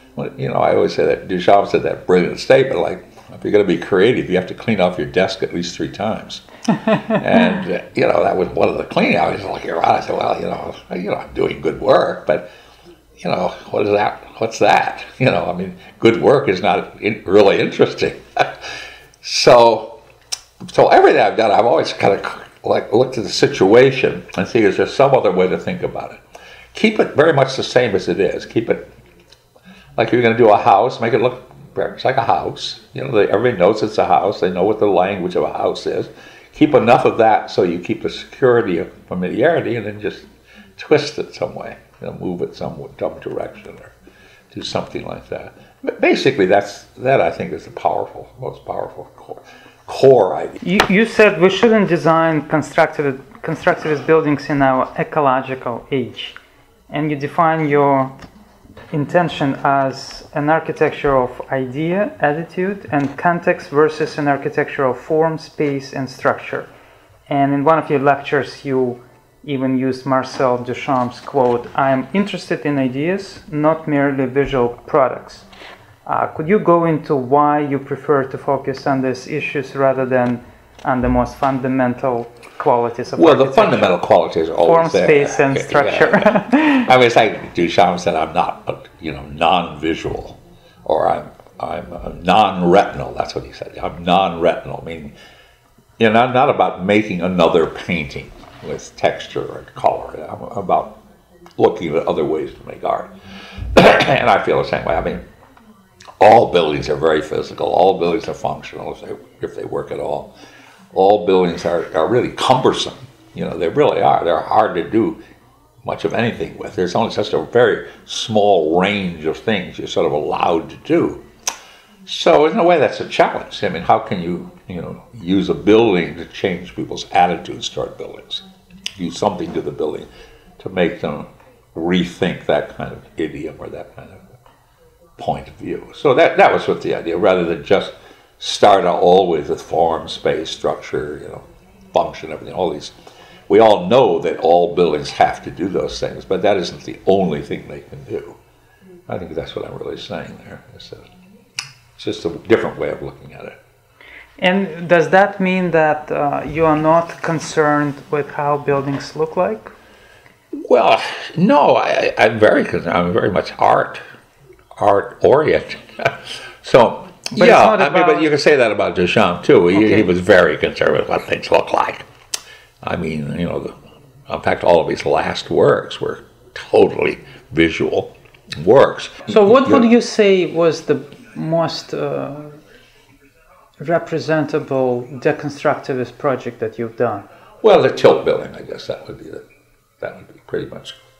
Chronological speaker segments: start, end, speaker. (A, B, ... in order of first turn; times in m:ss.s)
0:00.2-0:06.4 A
0:07.1-0:12.5 A
0:13.2-0:18.6 A
0:19.2-0:20.0 A
0:20.7-0:26.2 A
0:26.7-0:28.9 A
0:30.0-0:43.9 A
0:44.5-0:50.6 A
0:50.6-0:56.4 B
0:56.9-0:58.1 B
0:58.9-1:06.7 B
1:07.3-1:15.5 B
1:16.0-1:24.0 B
1:23.2-1:35.1 A
1:24.6-1:26.9 B
1:36.0-1:41.0 A
1:41.6-1:43.1 A
1:43.7-1:45.2 A
1:46.2-1:50.3 A
1:50.9-1:55.2 A
1:55.8-2:01.2 A
2:02.0-2:08.4 A
2:09.0-2:10.1 A
2:10.6-2:14.3 A
2:15.2-2:22.9 A
2:23.5-2:28.4 A
2:29.1-2:31.0 A
2:32.0-2:33.6 A
2:34.4-2:39.7 B
2:40.7-2:44.0 A
2:44.8-2:52.0 A
2:47.3-2:48.3 B
2:49.7-2:50.1 B
2:52.8-2:53.7 A
2:54.3-2:59.9 A
2:59.3-3:02.6 B
3:03.8-3:07.2 B
3:07.6-3:09.4 A
3:10.0-3:10.9 A